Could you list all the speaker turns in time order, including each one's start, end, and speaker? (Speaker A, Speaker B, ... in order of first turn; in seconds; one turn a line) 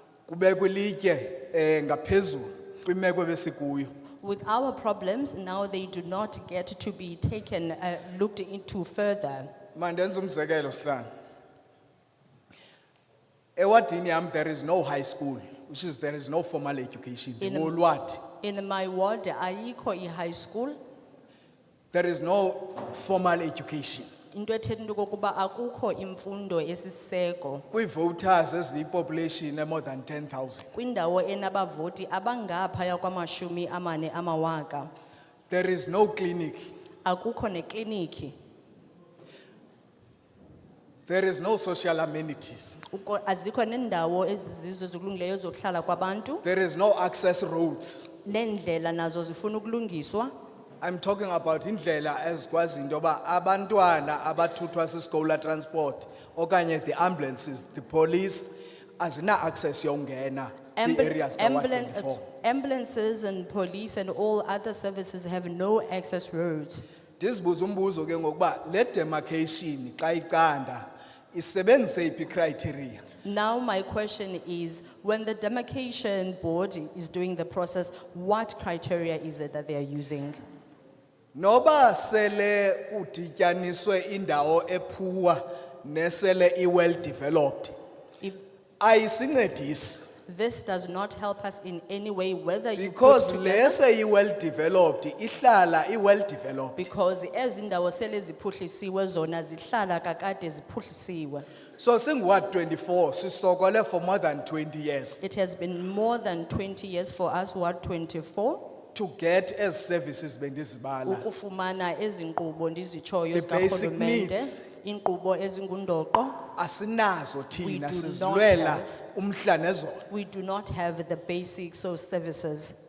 Speaker A: 0.3-3.9
Speaker B: 4.2-9.5
Speaker A: 9.7-11.1
Speaker A: 13.6-18.2
Speaker B: 17.4-20.8
Speaker A: 21.9-24.1
Speaker B: 24.3-27.6
Speaker A: 27.7-30.7
Speaker B: 30.7-34.9
Speaker A: 35.5-36.7
Speaker B: 37.0-38.3
Speaker A: 41.1-42.8
Speaker B: 42.9-46.5
Speaker A: 46.4-48.1
Speaker B: 48.2-50.3
Speaker A: 50.8-62.2
Speaker B: 60.8-66.8
Speaker A: 67.2-73.0
Speaker B: 73.2-80.4
Speaker A: 81.3-87.8
Speaker A: 88.8-90.0
Speaker B: 90.2-93.8
Speaker A: 92.8-96.8
Speaker B: 96.8-101.5
Speaker A: 101.8-105.2
Speaker B: 105.2-108.7
Speaker A: 108.9-111.2
Speaker B: 111.0-116.4
Speaker A: 113.3-114.6
Speaker A: 116.5-120.0
Speaker B: 117.6-119.0
Speaker B: 120.1-122.7